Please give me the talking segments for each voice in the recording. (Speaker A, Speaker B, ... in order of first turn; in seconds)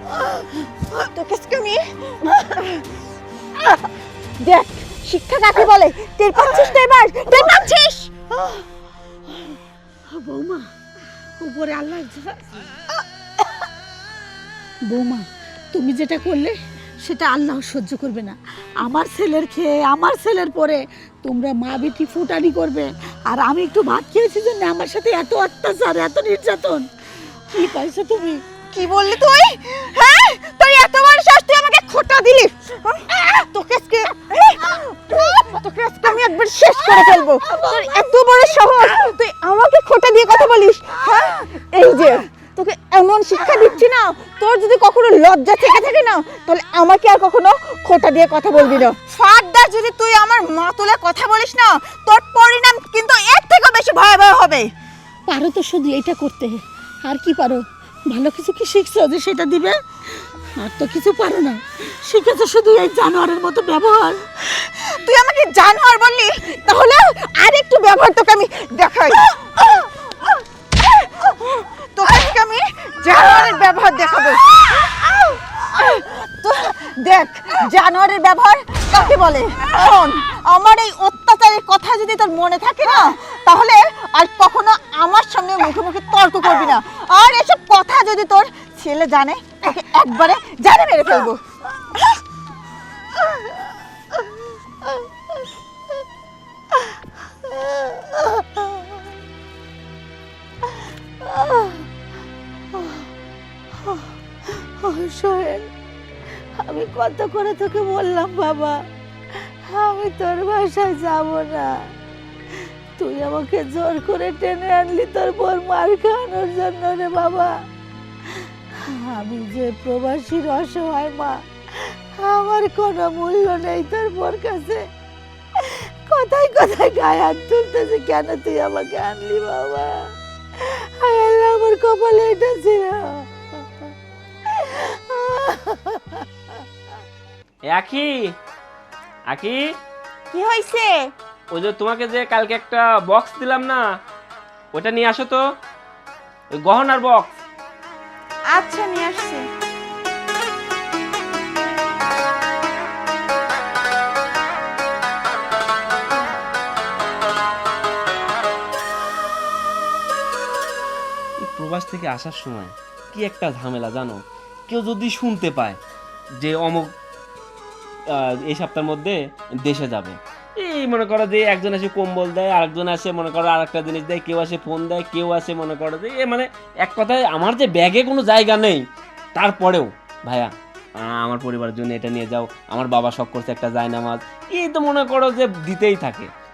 Speaker A: 1.0-1.9, 4.4-8.1, 28.7-54.7, 64.9-69.8, 70.8-91.4, 140.3-141.1, 148.5-149.5
Speaker B: 10.1-10.7, 11.4-12.6, 14.9-26.9, 27.5-28.4, 55.3-64.3, 96.7-99.0, 100.7-101.8, 102.7-103.1, 103.8-105.7, 106.6-108.8, 109.3-111.9, 112.6-117.5, 118.9-124.9, 125.6-133.6, 134.5-136.2
Speaker C: 137.7-138.3, 139.3-139.6, 141.5-143.8, 144.7-145.4, 146.5-147.4, 161.4-165.8, 166.4-166.9, 168.1-178.8, 179.3-186.3